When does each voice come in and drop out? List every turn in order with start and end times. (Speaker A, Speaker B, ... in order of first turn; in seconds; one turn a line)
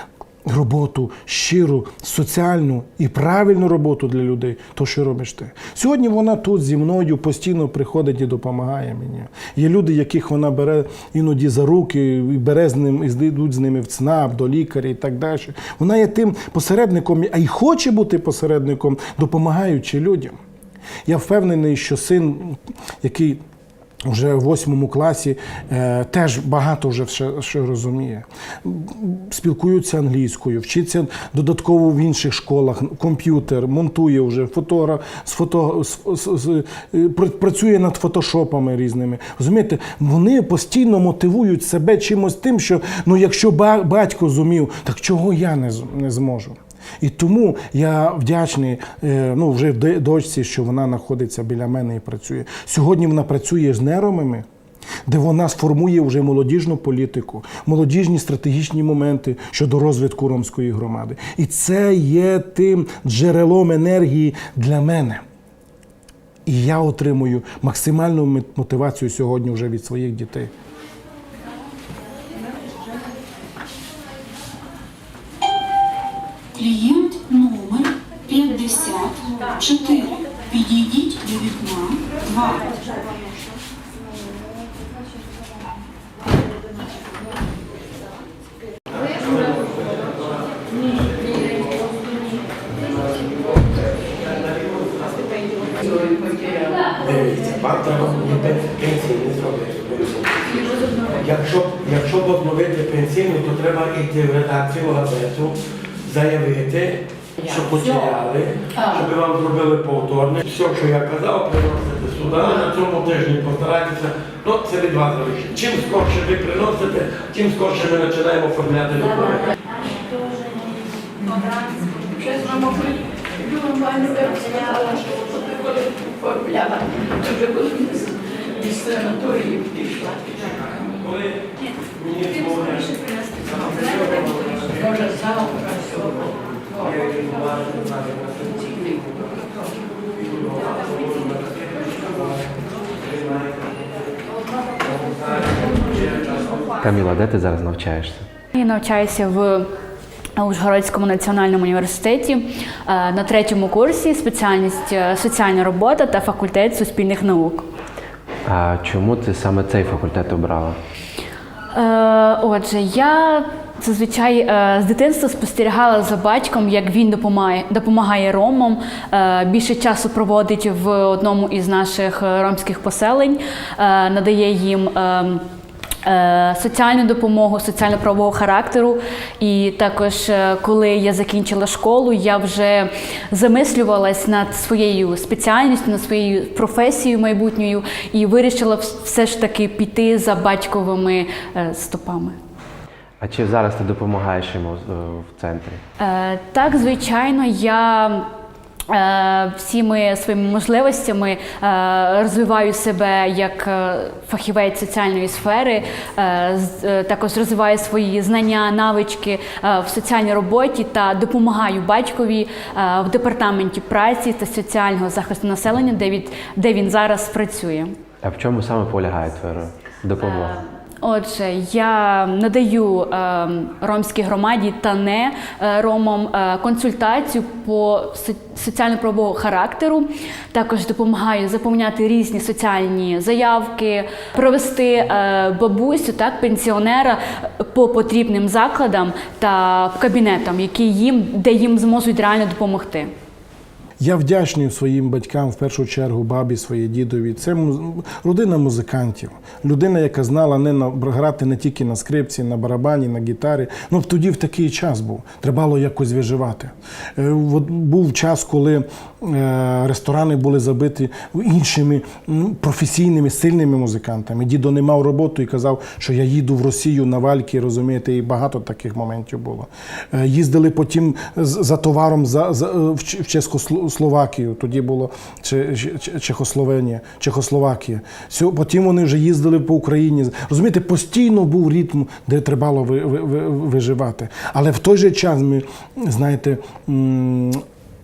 Speaker A: 0.5-20.4
Speaker A: 21.1-23.4
Speaker A: 24.1-54.5
Speaker A: 55.1-65.2
Speaker A: 66.5-70.5
Speaker B: 76.5-83.4
Speaker C: 89.5-90.0
Speaker C: 97.0-100.5
Speaker C: 101.2-119.5
Speaker C: 132.3-132.9
Speaker C: 133.9-134.3
Speaker D: 146.7-148.3
Speaker E: 148.5-149.7
Speaker E: 150.4-157.7
Speaker D: 158.5-160.8
Speaker E: 161.7-175.4
Speaker E: 176.0-192.4
Speaker D: 193.2-195.8
Speaker E: 196.0-198.3
Speaker E: 198.9-217.9
Speaker D: 218.2-220.6
Speaker E: 220.3-243.1
Speaker A: 244.0-287.6